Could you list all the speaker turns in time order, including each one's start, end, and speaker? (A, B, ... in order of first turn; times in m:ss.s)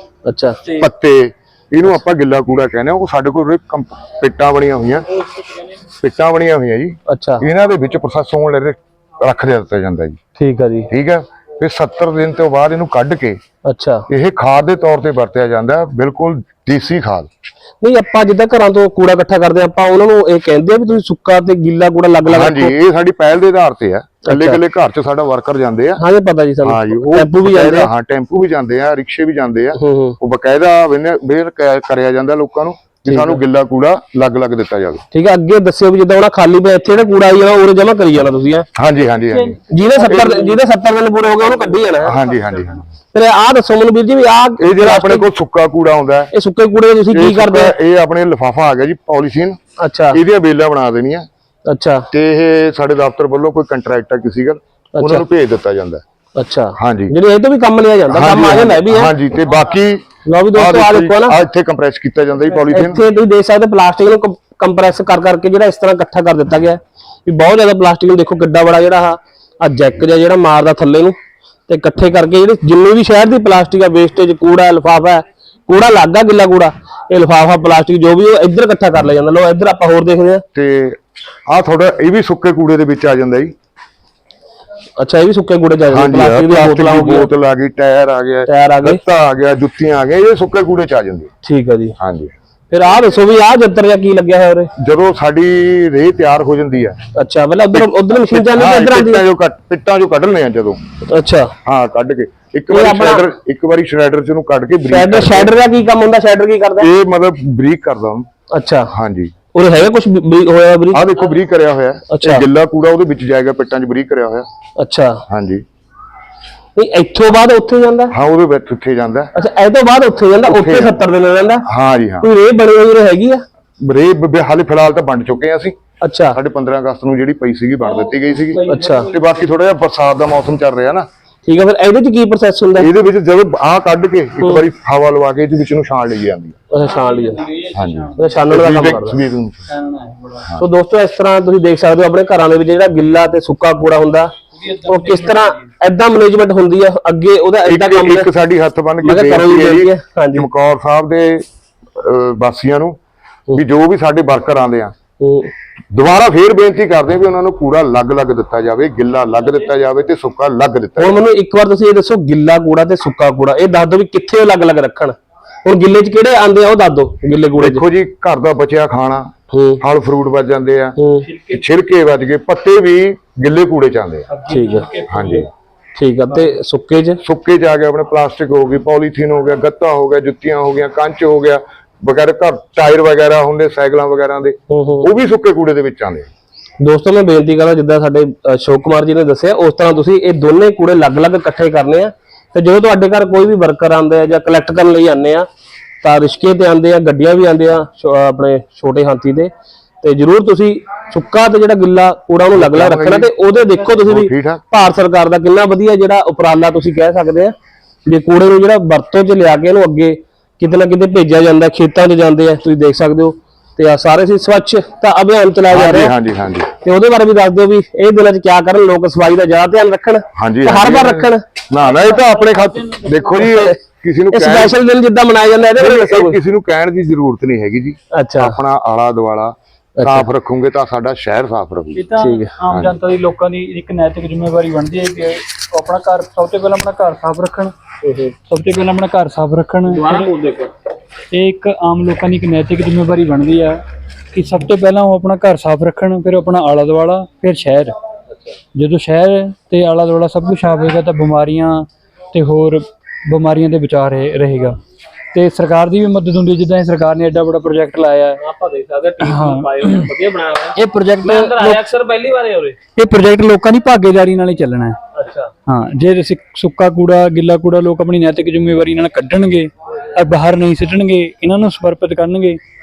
0:00.3-0:00.6 A
0:00.7-0:05.1 B
0:06.0-0:10.2 B
0:07.1-0:07.5 A
0:10.4-0:10.9 A
0:10.9-0:13.4 B
0:13.6-0:14.0 A
0:14.1-0:17.3 B
0:17.8-0:22.7 A
0:22.3-0:26.0 B
0:24.3-0:24.6 A
0:26.0-0:27.9 A
0:26.6-0:35.0 B
0:29.8-0:30.2 A
0:33.1-0:33.4 A
0:35.1-0:38.7 A
0:38.8-0:40.5 B
0:39.3-0:39.6 C
0:39.7-0:42.2 A
0:42.0-0:42.8 B
0:43.1-0:45.3 A
0:44.6-0:46.3 B
0:46.3-0:47.8 A
0:47.1-0:49.6 B
0:49.8-0:50.2 A
0:50.1-0:51.3 B
0:51.7-0:52.1 A
0:52.1-0:56.0 B
0:55.0-0:55.2 A
0:56.4-0:59.1 A
0:56.8-0:57.1 B
0:58.1-1:03.0 B
1:00.2-1:01.4 A
1:02.7-1:11.2 A
1:11.7-1:20.4 A
1:20.5-1:23.5 B
1:25.0-1:27.3 A
1:25.9-1:31.3 B
1:28.5-1:29.0 A
1:31.4-1:32.0 A
1:32.0-1:32.3 B
1:32.7-1:34.7 A
1:34.8-1:37.0 B
1:37.1-1:39.2 A
1:37.7-1:40.8 B
1:41.1-1:41.5 A
1:41.6-1:45.5 B
1:42.7-1:43.3 A
1:44.9-1:46.9 A
1:46.8-1:48.3 B
1:48.5-1:48.9 A
1:48.9-1:49.3 B
1:49.5-1:51.2 A
1:50.9-1:54.5 B
1:52.1-1:52.5 A
1:54.8-1:55.2 A
1:55.3-1:55.6 B
1:56.8-1:58.1 A
1:58.1-1:59.3 B
1:59.4-2:01.7 A
2:00.4-2:01.0 B
2:01.7-2:02.3 B
2:02.2-2:03.4 A
2:03.8-2:05.8 B
2:06.0-2:06.4 A
2:06.3-2:11.1 B
2:07.8-2:09.2 C
2:08.7-2:09.1 A
2:11.4-2:12.9 A
2:12.8-2:16.6 B
2:16.7-2:17.5 A
2:16.8-2:18.5 C
2:17.7-2:19.6 B
2:18.2-2:19.2 A
2:19.7-2:20.5 C
2:20.6-2:24.3 A
2:24.6-2:25.6 C
2:24.8-2:28.3 A
2:27.6-2:33.0 B
2:29.0-2:30.5 A
2:33.5-2:34.9 B
2:35.2-2:35.5 A
2:35.9-2:41.2 B
2:41.0-2:47.8 A
2:47.6-2:51.0 B
2:49.5-2:49.8 A
2:51.0-2:51.3 A
2:51.3-2:51.6 C
2:51.5-2:54.3 B
2:54.3-2:55.5 C
2:54.5-2:55.0 A
2:55.1-2:55.5 B
2:56.0-2:57.2 A
2:57.2-3:06.3 B
3:04.7-3:05.1 A
3:06.8-3:15.5 A
3:16.0-3:19.5 A
3:20.0-3:27.5 A
3:22.5-3:23.3 B
3:24.0-3:24.6 B
3:28.1-3:36.1 A
3:35.7-3:36.7 B
3:36.8-3:41.5 A
3:40.4-3:44.8 B
3:41.8-3:43.5 C
3:43.3-3:43.8 A
3:44.3-3:46.4 A
3:45.8-3:52.0 B
3:48.1-3:48.6 A
3:50.0-3:50.3 A
3:52.0-3:57.7 C
3:52.2-3:52.5 A
3:52.7-3:53.0 B
3:58.0-3:58.4 A
3:58.5-4:00.3 C
3:59.9-4:00.7 A
4:01.3-4:03.8 C
4:04.3-4:07.9 C
4:08.8-4:14.8 C
4:15.3-4:18.4 C
4:18.4-4:22.8 A
4:19.2-4:20.1 C
4:20.8-4:21.8 C
4:23.0-4:25.0 C
4:25.2-4:25.5 A
4:25.7-4:32.6 C